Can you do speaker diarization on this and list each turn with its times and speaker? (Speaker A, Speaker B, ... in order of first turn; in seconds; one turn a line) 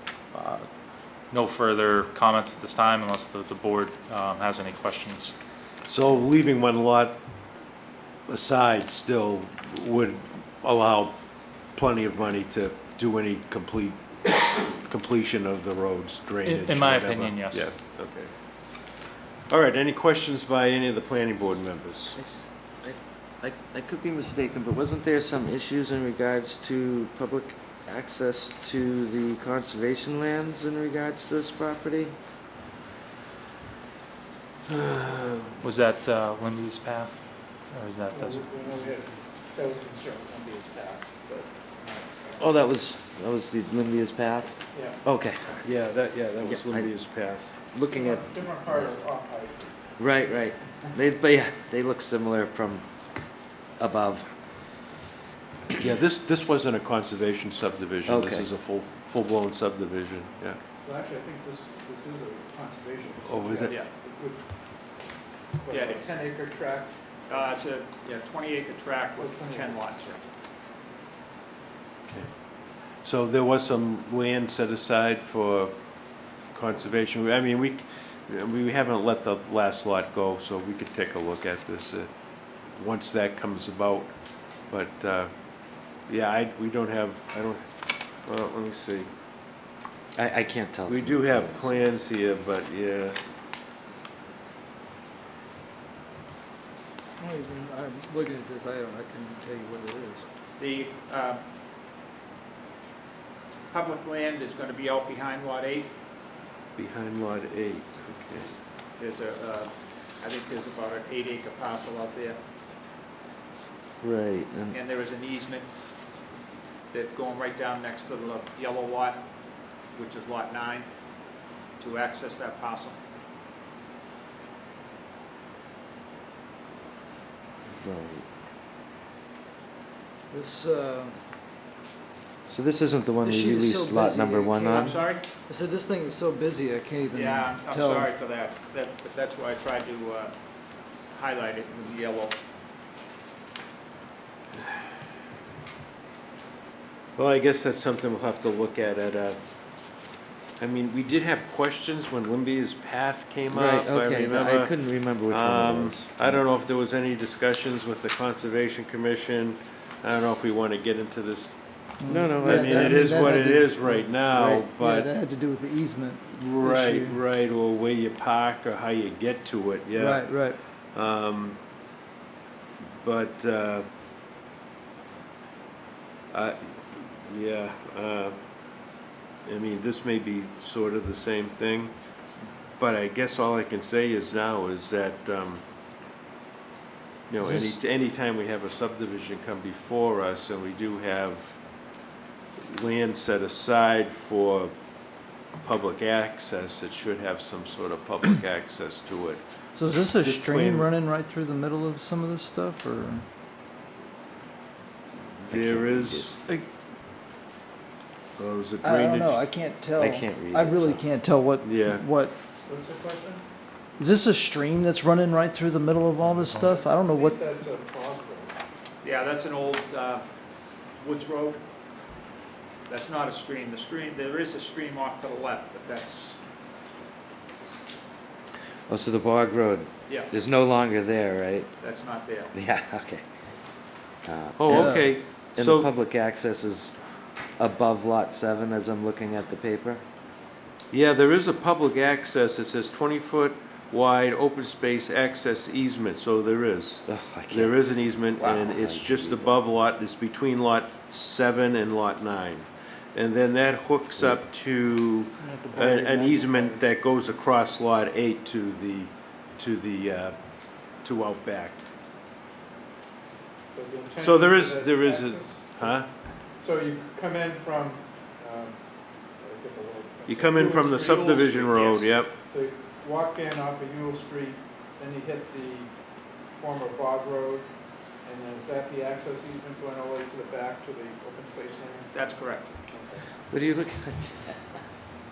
Speaker A: 0.3-0.7
Speaker A: 1.3-5.3
Speaker B: 5.9-7.2
Speaker B: 8.3-18.3
Speaker A: 16.4-17.7
Speaker B: 19.5-22.2
Speaker C: 22.1-32.1
Speaker B: 34.7-35.5
Speaker A: 35.6-38.5
Speaker D: 38.1-42.5
Speaker C: 42.4-45.6
Speaker D: 44.7-45.0
Speaker B: 45.6-47.5
Speaker C: 46.4-48.9
Speaker D: 47.9-49.9
Speaker C: 50.0-52.9
Speaker C: 53.8-54.3
Speaker B: 55.8-60.6
Speaker C: 58.0-58.5
Speaker D: 60.8-64.5
Speaker B: 63.2-63.7
Speaker D: 65.6-67.5
Speaker E: 65.7-66.1
Speaker E: 67.3-70.2
Speaker D: 69.2-69.9
Speaker B: 73.0-75.7
Speaker B: 76.5-82.1
Speaker B: 82.7-85.3
Speaker B: 86.0-89.1
Speaker C: 90.2-91.9
Speaker B: 90.9-93.2
Speaker F: 97.2-100.2
Speaker E: 100.6-101.4
Speaker E: 103.7-105.9
Speaker B: 106.8-108.5
Speaker E: 109.0-112.4
Speaker C: 114.0-114.8
Speaker E: 114.7-115.7
Speaker E: 116.9-119.2
Speaker E: 119.9-120.9
Speaker E: 121.8-123.0
Speaker C: 127.7-128.2
Speaker F: 130.3-131.2
Speaker C: 132.5-134.9
Speaker F: 133.2-138.1
Speaker E: 134.6-135.2
Speaker E: 137.1-140.3
Speaker E: 141.1-142.4
Speaker B: 147.2-149.4
Speaker B: 150.6-154.7
Speaker C: 153.5-156.4
Speaker B: 155.3-165.1
Speaker F: 162.0-167.2
Speaker C: 162.1-163.3
Speaker B: 166.3-170.4
Speaker F: 169.9-170.6
Speaker B: 170.9-171.6
Speaker B: 173.0-173.8
Speaker B: 176.3-178.4
Speaker B: 179.4-181.9
Speaker B: 182.8-185.6
Speaker B: 187.3-191.6
Speaker F: 187.4-187.8
Speaker B: 192.6-194.7
Speaker B: 195.6-199.4
Speaker F: 199.8-203.2
Speaker B: 200.2-200.9
Speaker C: 205.4-206.3
Speaker B: 205.5-206.3
Speaker B: 208.3-209.4
Speaker F: 208.8-212.3
Speaker C: 209.9-211.1
Speaker B: 211.6-212.0
Speaker D: 212.7-213.4
Speaker F: 214.0-217.4
Speaker A: 216.2-216.8
Speaker D: 216.6-218.5
Speaker E: 219.0-220.2
Speaker E: 221.0-221.6
Speaker E: 222.9-226.4
Speaker C: 228.9-231.7
Speaker E: 230.1-230.3
Speaker E: 231.8-232.5
Speaker C: 232.5-233.2
Speaker C: 234.2-236.9
Speaker B: 234.6-235.9
Speaker F: 234.7-235.2
Speaker C: 237.6-240.0
Speaker B: 240.9-260.4
Speaker C: 247.1-247.8
Speaker C: 248.3-249.6
Speaker C: 254.2-254.4
Speaker D: 255.4-256.8
Speaker B: 260.9-261.8
Speaker D: 263.7-271.2
Speaker B: 264.2-266.1
Speaker B: 270.2-272.4
Speaker E: 271.0-272.1
Speaker D: 272.4-283.3
Speaker E: 282.1-282.8
Speaker C: 283.5-284.6